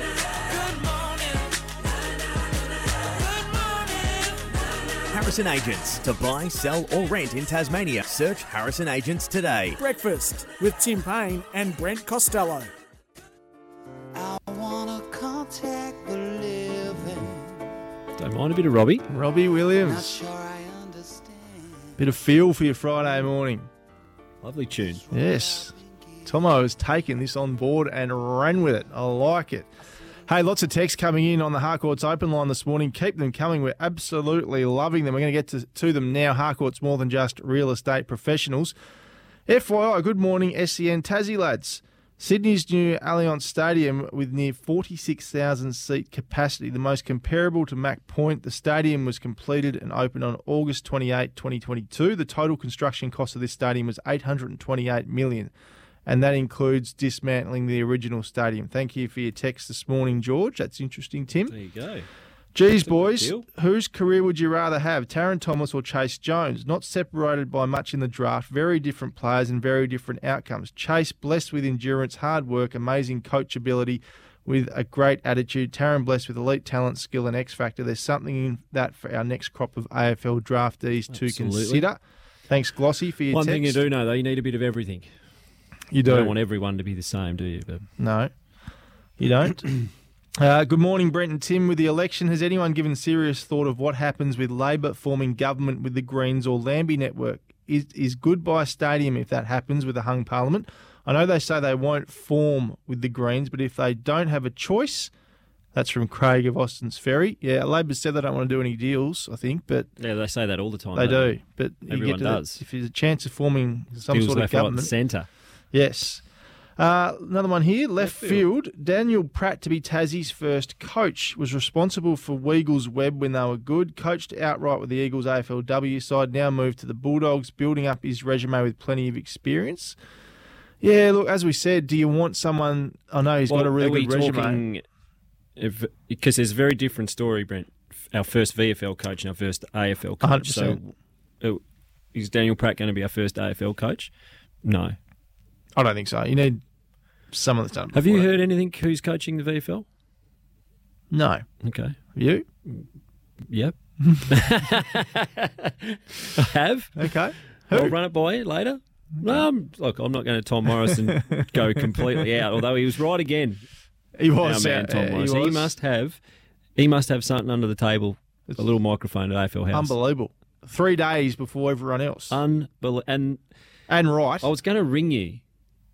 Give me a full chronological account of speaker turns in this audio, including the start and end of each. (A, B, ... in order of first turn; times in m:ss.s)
0:05.1-0:09.8 A
0:09.8-0:12.7 B
0:14.2-0:17.5 C
0:18.2-0:19.0 D
0:19.1-0:20.2 E
0:19.9-0:21.4 C
0:22.0-0:23.7 E
0:24.4-0:25.0 D
0:25.1-0:29.7 E
0:30.2-0:38.7 E
0:39.5-0:55.5 E
0:56.0-1:01.5 E
1:01.4-1:02.1 D
1:02.5-1:23.8 E
1:02.8-1:03.4 D
1:21.1-1:21.9 D
1:23.3-1:25.1 D
1:25.9-1:26.3 E
1:26.0-1:27.8 D
1:28.0-1:28.3 E
1:29.2-1:29.7 E
1:30.4-1:45.1 E
1:45.7-1:49.9 E
1:50.0-1:52.6 D
1:50.9-1:54.9 E
1:54.1-1:55.3 D
1:55.7-1:56.2 E
1:56.8-2:10.0 E
1:58.0-1:58.4 D
2:10.8-2:14.6 E
2:13.5-2:14.8 D
2:15.6-2:20.8 D
2:20.2-2:20.9 E
2:22.1-2:24.1 D
2:24.6-2:25.0 D
2:25.8-2:26.6 E
2:27.3-2:28.3 E
2:27.9-2:29.8 D
2:31.1-2:31.4 E
2:31.6-2:31.9 D
2:32.1-2:32.4 E
2:33.5-2:37.1 D
2:37.0-2:37.9 E
2:37.7-2:43.6 D
2:39.2-2:39.4 E
2:40.8-2:42.1 E
2:44.2-2:45.7 E
2:44.4-2:46.2 D
2:46.8-2:49.9 D
2:49.7-2:52.4 E
2:52.3-2:53.4 D
2:53.9-2:54.5 E
2:54.4-2:55.4 D